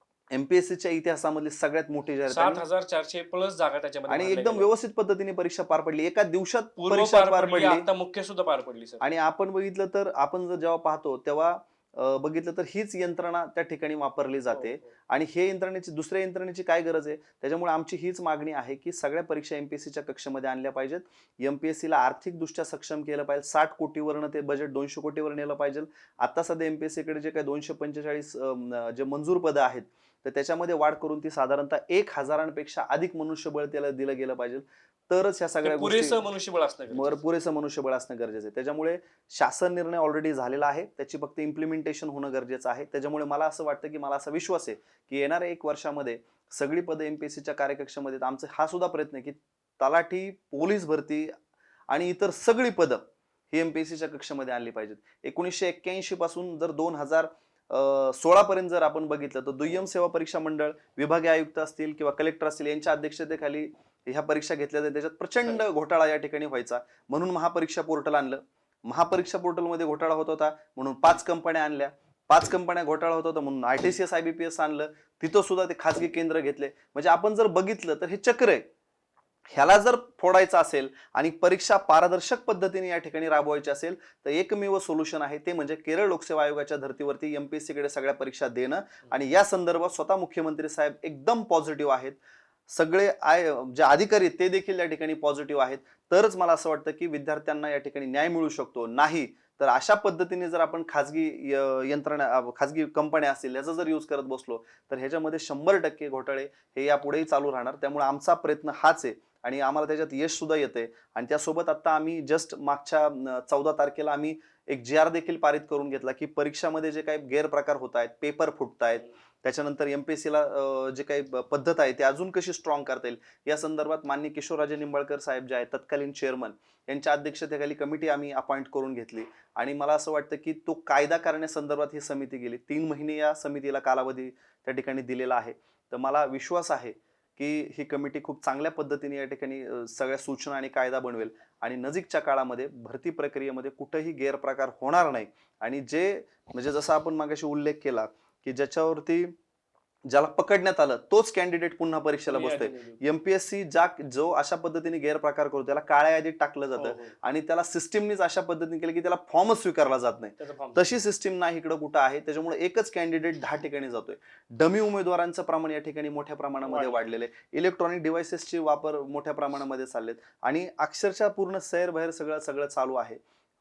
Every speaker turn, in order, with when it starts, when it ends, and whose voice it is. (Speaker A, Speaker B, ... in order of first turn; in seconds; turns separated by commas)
Speaker A: 0.3-2.6, Speaker B: 2.3-4.7, Speaker A: 4.1-7.9, Speaker B: 6.8-9.0, Speaker A: 9.0-36.2, Speaker B: 14.5-14.8, Speaker B: 35.6-37.2, Speaker A: 36.9-51.3, Speaker A: 51.9-78.7, Speaker A: 79.5-149.3, Speaker A: 150.1-173.2, Speaker B: 152.3-153.0, Speaker B: 156.8-157.2, Speaker B: 160.4-160.8, Speaker B: 166.7-167.1